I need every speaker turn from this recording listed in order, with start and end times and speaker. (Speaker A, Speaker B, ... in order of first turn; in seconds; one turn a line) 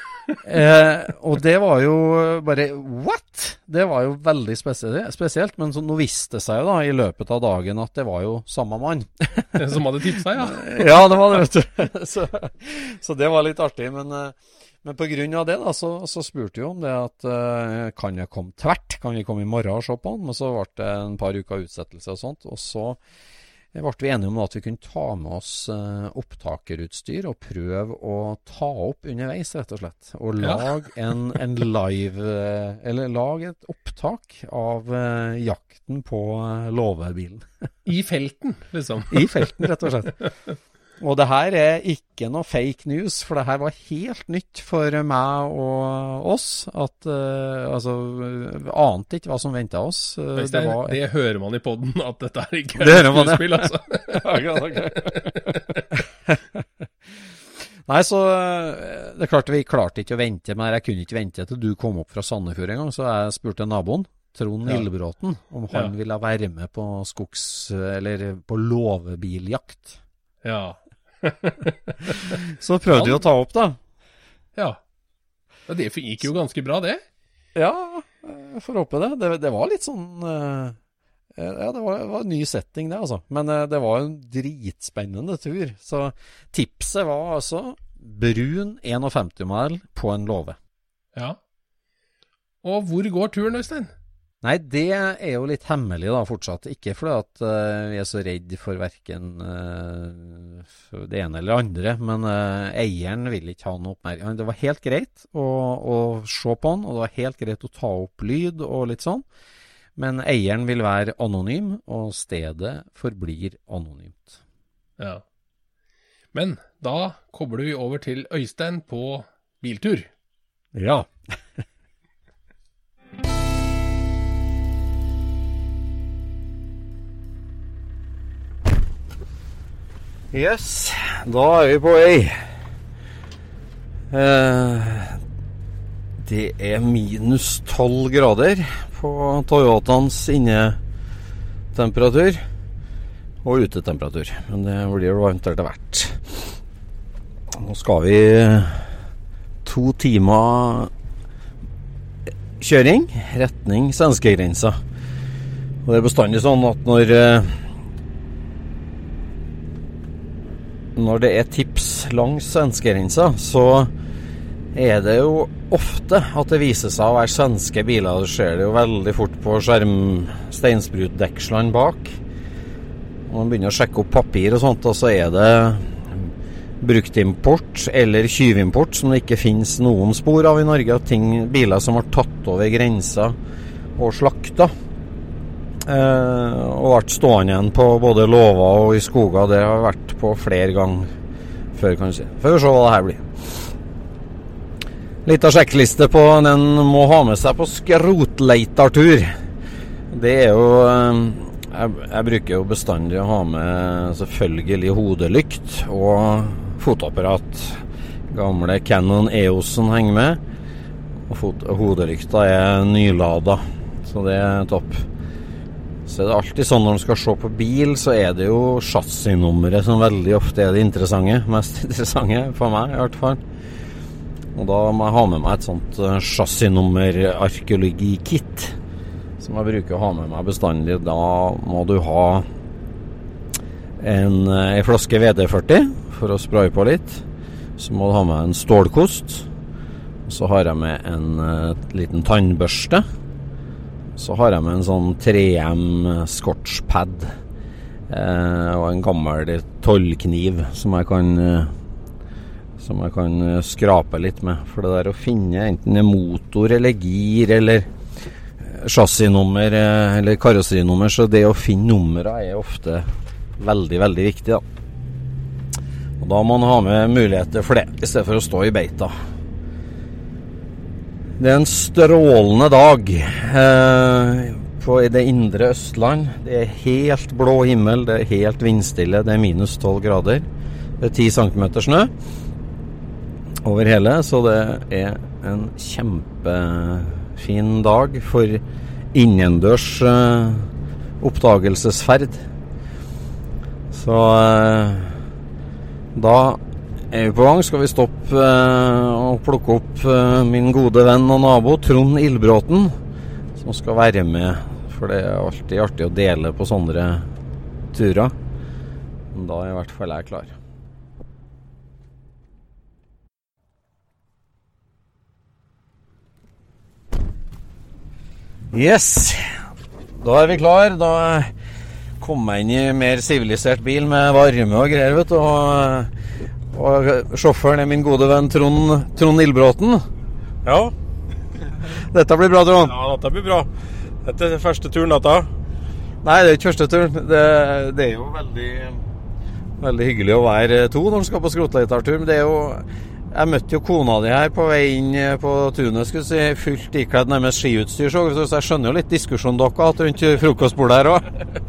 Speaker A: 0.4-23.0
Speaker B: 9.6-11.2
Speaker A: 23.7-37.5
Speaker B: 30.4-30.8
Speaker B: 37.9-40.3
Speaker A: 39.1-40.1
Speaker A: 41.0-51.0
Speaker B: 50.4-55.9
Speaker A: 52.8-57.3
Speaker A: 57.9-70.0
Speaker B: 70.4-72.4
Speaker A: 72.3-73.8
Speaker B: 72.9-73.2
Speaker B: 75.7-77.0
Speaker A: 77.5-80.8
Speaker A: 81.4-90.6
Speaker B: 92.6-93.9
Speaker A: 94.4-109.2
Speaker A: 110.0-114.4
Speaker B: 116.3-120.1
Speaker A: 120.7-121.1
Speaker A: 130.3-132.4
Speaker A: 134.1-135.2
Speaker A: 136.2-140.8
Speaker A: 141.7-142.5
Speaker A: 143.4-146.6
Speaker A: 147.5-149.0
Speaker A: 149.7-150.9
Speaker A: 152.6-154.8
Speaker A: 155.8-157.7
Speaker A: 161.0-163.9
Speaker A: 164.7-172.2
Speaker A: 173.3-183.4
Speaker A: 184.0-184.7
Speaker A: 185.8-191.1
Speaker A: 191.7-193.7
Speaker A: 195.2-199.4
Speaker A: 200.1-210.4
Speaker A: 211.3-215.1
Speaker A: 216.1-223.4
Speaker A: 224.6-228.8
Speaker A: 229.4-232.5
Speaker A: 234.0-237.2
Speaker A: 237.8-239.5
Speaker A: 240.3-243.1
Speaker A: 244.2-247.3
Speaker A: 248.1-251.8
Speaker A: 252.8-257.9
Speaker A: 258.6-264.6
Speaker A: 266.2-269.1
Speaker A: 271.4-280.5
Speaker A: 281.0-282.1
Speaker A: 283.6-292.5
Speaker A: 293.9-295.2
Speaker A: 296.1-296.6
Speaker A: 297.1-303.0
Speaker A: 303.6-307.3
Speaker A: 307.9-308.4
Speaker A: 309.3-310.6
Speaker A: 318.7-321.5
Speaker A: 322.2-326.1
Speaker A: 326.7-330.1
Speaker C: 330.6-330.9
Speaker A: 331.9-332.9
Speaker C: 332.8-333.7
Speaker C: 334.2-335.5
Speaker A: 336.2-339.0
Speaker A: 339.8-351.3